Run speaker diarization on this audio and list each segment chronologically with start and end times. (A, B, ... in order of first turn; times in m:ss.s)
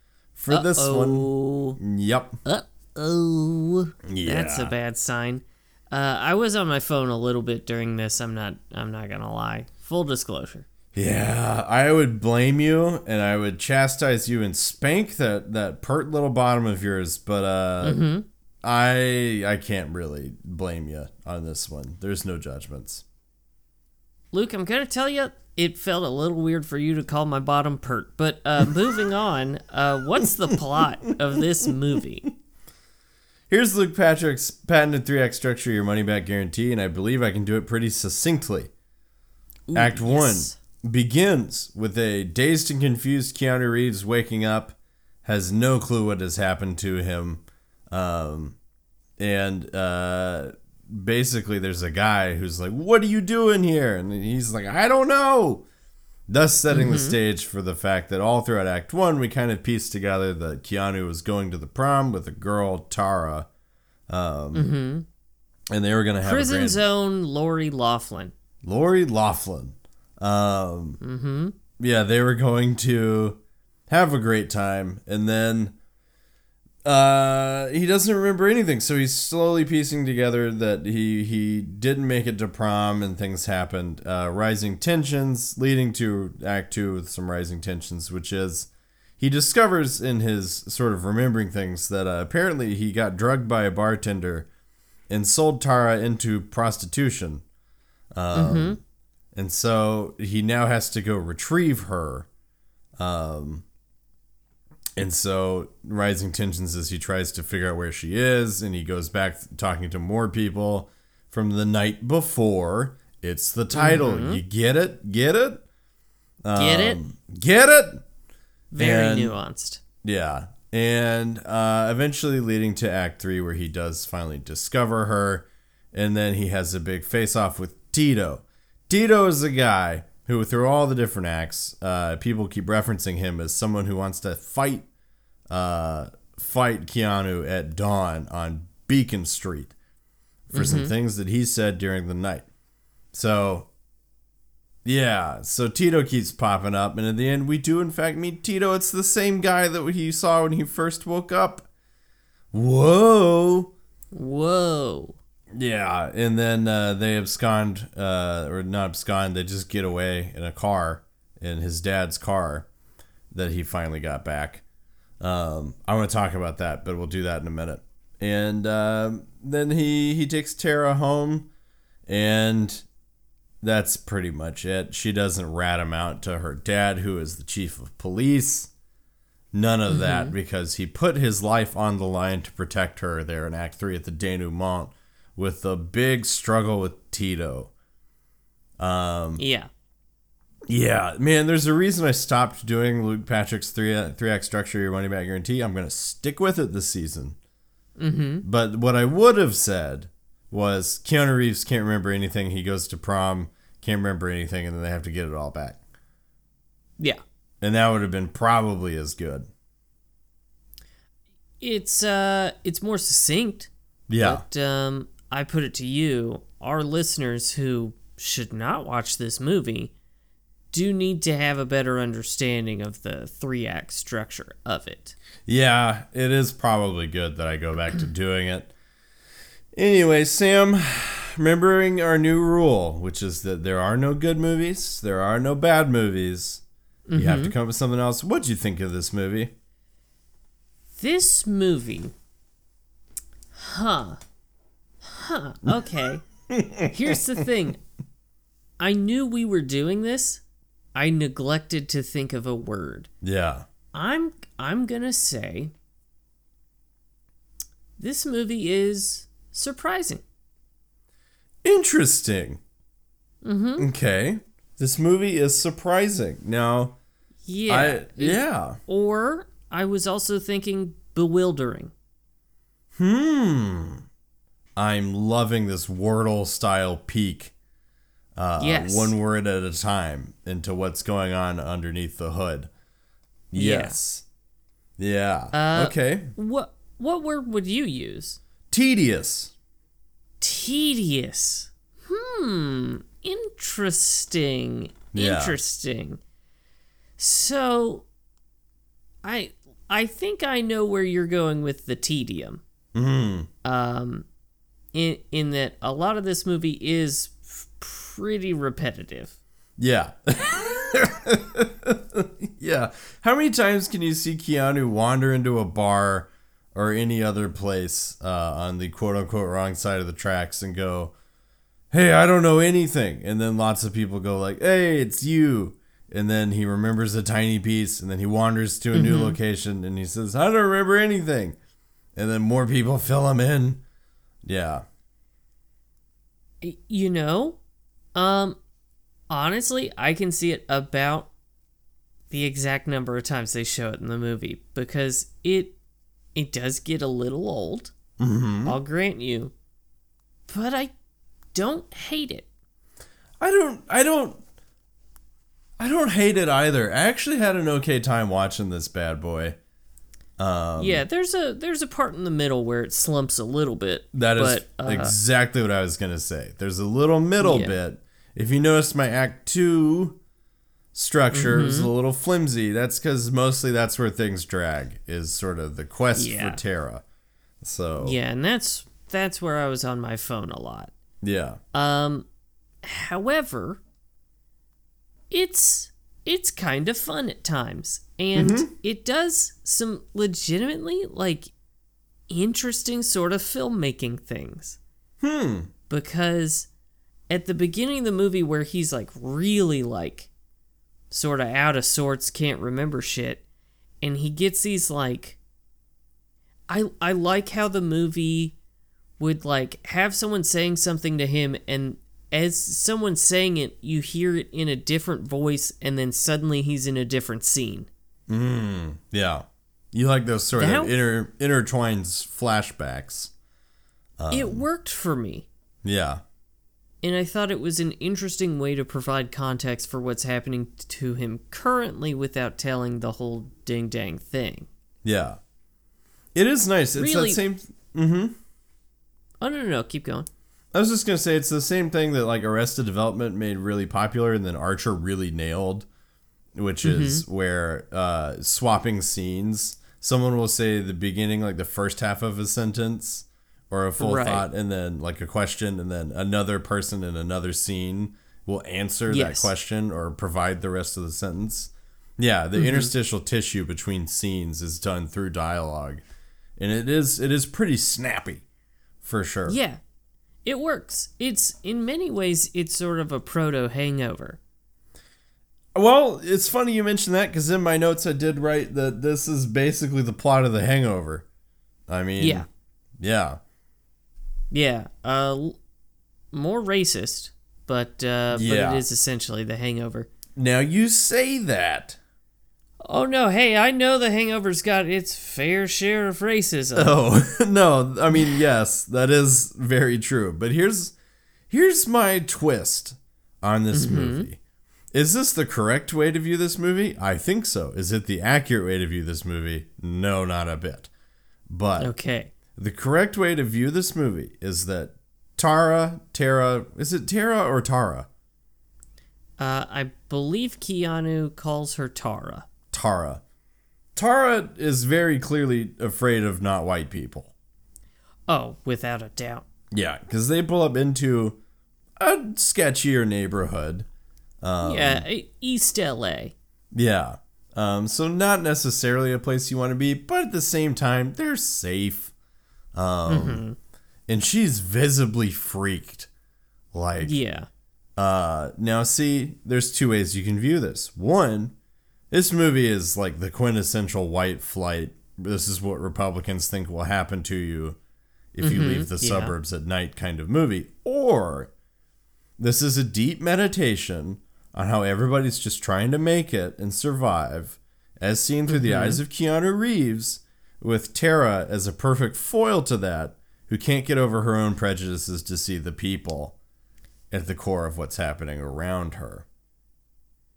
0:00.4-0:02.4 A
0:00.5-0:01.8 B
0:02.4-0:10.7 B
0:04.1-0:04.7 A
0:10.9-0:18.0 A
0:17.8-0:18.3 B
0:18.6-0:23.0 A
0:24.3-0:32.3 B
0:33.5-0:38.7 A
0:39.7-0:40.6 B
0:39.7-0:48.6 A
0:49.2-0:55.6 A
0:56.3-1:03.5 A
0:56.7-0:57.2 B
1:04.1-1:04.7 A
1:04.5-1:05.1 B
1:05.7-1:06.8 A
1:06.2-1:08.3 B
1:08.6-1:11.0 A
1:11.0-1:11.6 B
1:11.8-1:15.8 A
1:16.8-1:34.5 A
1:35.1-1:37.4 A
1:38.1-1:38.8 A
1:38.3-1:38.8 B
1:39.4-1:42.3 A
1:43.0-1:43.6 A
1:45.0-1:55.6 A
1:53.7-1:54.4 B
1:56.4-1:58.0 A
1:56.6-1:57.0 B
1:58.7-1:59.8 B
1:58.8-1:59.4 A
2:00.0-2:14.9 A
2:15.5-2:19.7 A
2:20.5-2:22.5 A
2:20.5-2:20.9 B
2:23.1-2:23.7 A
2:24.8-2:31.7 A
2:32.5-2:33.7 A
2:34.1-2:35.2 B
2:35.5-2:42.7 A
2:43.3-2:44.6 A
2:45.2-2:51.5 A
2:52.1-2:52.8 A
2:53.6-2:58.7 A
2:59.5-3:07.7 A
2:59.9-3:00.4 B
3:08.8-3:09.4 A
3:09.4-3:09.7 B
3:10.7-3:17.4 A
3:18.0-3:18.4 B
3:18.4-3:25.8 A
3:27.6-3:29.5 A
3:31.6-3:39.9 B
3:34.1-3:34.4 A
3:40.7-3:45.2 B
3:45.5-3:48.7 A
3:49.8-3:56.6 A
3:57.1-3:57.5 B
3:57.2-3:59.5 A
4:01.0-4:02.1 B
4:03.6-4:04.2 B
4:05.0-4:06.2 B
4:06.5-4:07.2 A
4:06.9-4:07.8 B
4:08.8-4:10.4 B
4:11.0-4:13.1 B
4:13.2-4:13.7 A
4:13.9-4:15.7 B
4:18.0-4:20.2 B
4:21.6-4:22.6 A
4:23.4-4:23.9 B
4:23.8-4:27.0 A
4:27.4-4:31.9 B
4:27.7-4:28.8 A
4:33.0-4:34.0 A
4:34.8-4:37.5 A
4:38.4-4:42.7 A
4:38.6-4:39.2 B
4:43.5-4:44.2 A
4:43.6-4:44.0 B
4:45.0-4:46.3 A
4:45.5-4:48.4 B
4:48.7-4:49.5 A
4:50.4-4:56.2 B
4:55.1-4:55.6 A
4:57.2-4:58.0 B
4:59.2-5:02.6 B
5:02.9-5:03.5 A
5:03.6-5:04.3 B
5:04.9-5:09.4 B
5:09.8-5:21.2 A
5:21.9-5:31.6 A
5:28.9-5:29.4 B
5:32.2-5:33.8 A
5:34.5-5:34.8 A
5:36.6-5:37.6 B
5:38.2-5:38.6 B
5:39.3-5:41.3 B
5:42.3-5:45.8 B
5:46.4-5:47.9 B
5:48.2-5:48.8 A
5:48.6-5:49.5 B
5:50.5-5:50.9 B
5:51.5-5:52.5 B
5:53.4-5:54.4 A
5:55.8-5:59.6 A
6:00.4-6:01.0 A
6:00.8-6:05.2 B
6:04.1-6:10.2 A
6:07.4-6:07.8 B
6:10.9-6:17.0 A
6:11.3-6:11.9 B
6:16.2-6:16.6 B
6:17.6-6:18.2 A
6:18.0-6:20.9 B
6:21.2-6:21.6 A
6:21.7-6:22.3 B
6:22.8-6:23.8 B
6:25.3-6:31.5 B
6:28.4-6:28.7 A
6:32.3-6:34.8 B
6:35.2-6:35.7 A
6:35.9-6:36.7 B
6:37.3-6:40.3 B
6:41.1-6:43.4 B
6:44.0-6:45.4 B
6:46.7-6:48.6 B
6:49.2-6:57.9 B
6:58.3-7:03.3 A
7:00.6-7:00.9 B
7:04.2-7:04.6 A
7:04.3-7:05.5 B
7:05.8-7:06.2 A
7:07.0-7:14.7 B
7:15.0-7:15.4 A
7:16.4-7:18.4 A
7:17.0-7:17.4 B
7:19.4-7:20.3 B
7:20.7-7:25.9 A
7:26.6-7:46.0 A
7:26.8-7:27.2 B
7:34.0-7:34.5 B
7:39.1-7:39.5 B
7:42.6-7:42.9 B
7:46.6-7:48.4 A
7:49.0-7:49.6 A
7:49.5-7:49.8 B
7:50.4-7:54.4 B
7:55.8-8:01.2 A
8:01.9-8:02.5 A
8:02.2-8:02.5 B
8:03.0-8:03.4 A
8:04.5-8:05.6 B
8:06.3-8:10.1 B
8:08.3-8:08.8 A
8:10.4-8:12.0 A
8:12.8-8:17.0 B
8:16.8-8:20.9 A
8:21.5-8:24.4 A
8:23.7-8:24.3 B
8:24.9-8:30.9 A
8:31.5-8:31.9 A
8:31.8-8:32.3 B
8:32.6-8:38.1 A
8:39.4-8:42.5 B
8:42.7-8:43.2 A
8:44.0-8:47.3 A
8:48.3-8:49.5 B
8:49.7-8:51.4 A
8:52.0-8:53.9 A
8:54.4-8:55.0 A
8:54.6-8:56.3 B
8:56.7-9:02.1 A
9:02.7-9:03.4 A
9:03.1-9:03.6 B
9:04.1-9:06.1 A
9:06.7-9:07.2 A
9:07.0-9:07.5 B
9:08.0-9:11.6 A
9:12.1-9:17.8 A
9:18.3-9:21.5 A
9:18.4-9:19.3 B
9:22.4-9:36.4 A
9:28.5-9:29.0 B
9:37.1-9:39.2 A